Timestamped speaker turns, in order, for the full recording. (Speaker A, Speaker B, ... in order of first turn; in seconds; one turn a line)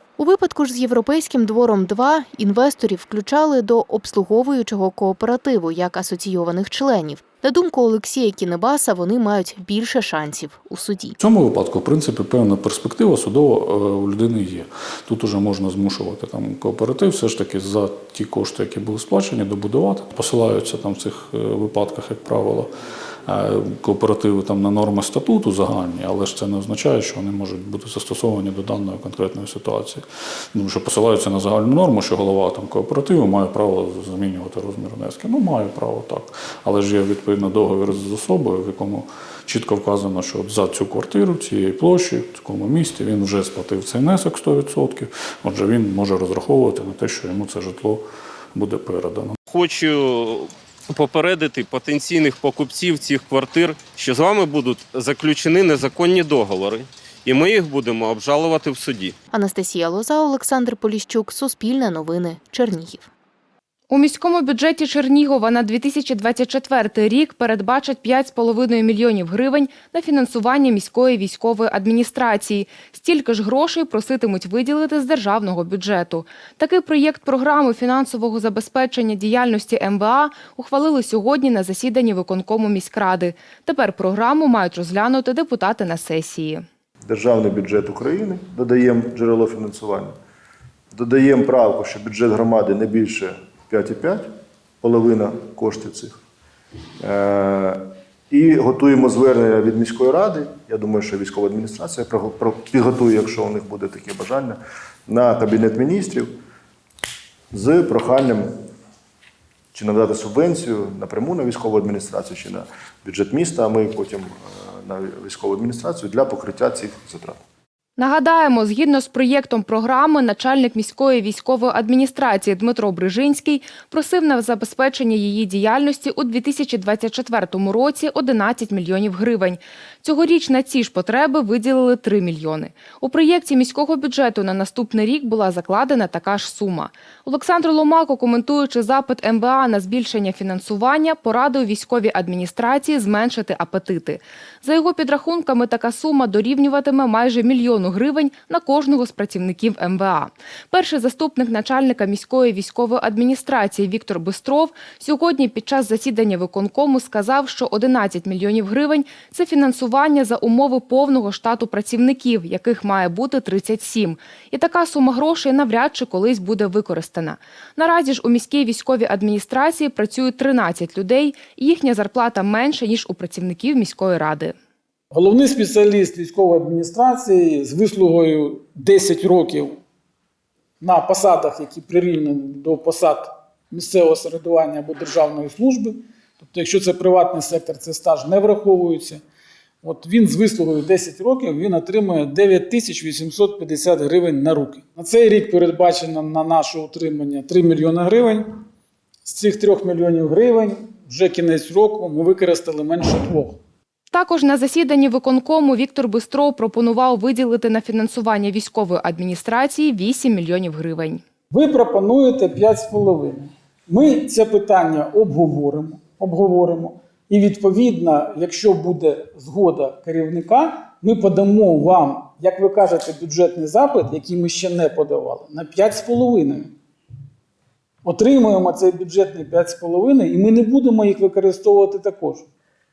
Speaker A: 0.2-11.2
Speaker B: 11.2-22.7
Speaker B: 23.3-30.0
Speaker B: 30.5-49.4
Speaker C: 49.5-59.1
Speaker A: 59.3-63.1
Speaker D: 63.9-86.6
Speaker E: 87.1-90.1
Speaker E: 90.9-94.3
Speaker E: 94.8-96.2
Speaker E: 97.0-106.3
Speaker E: 107.5-108.5
Speaker E: 109.7-117.4
Speaker D: 118.0-174.5
Speaker F: 175.1-179.8
Speaker F: 180.8-189.2
Speaker F: 189.8-198.5
Speaker F: 199.2-203.6
Speaker D: 204.1-211.2
Speaker F: 211.5-226.7
Speaker F: 228.0-232.4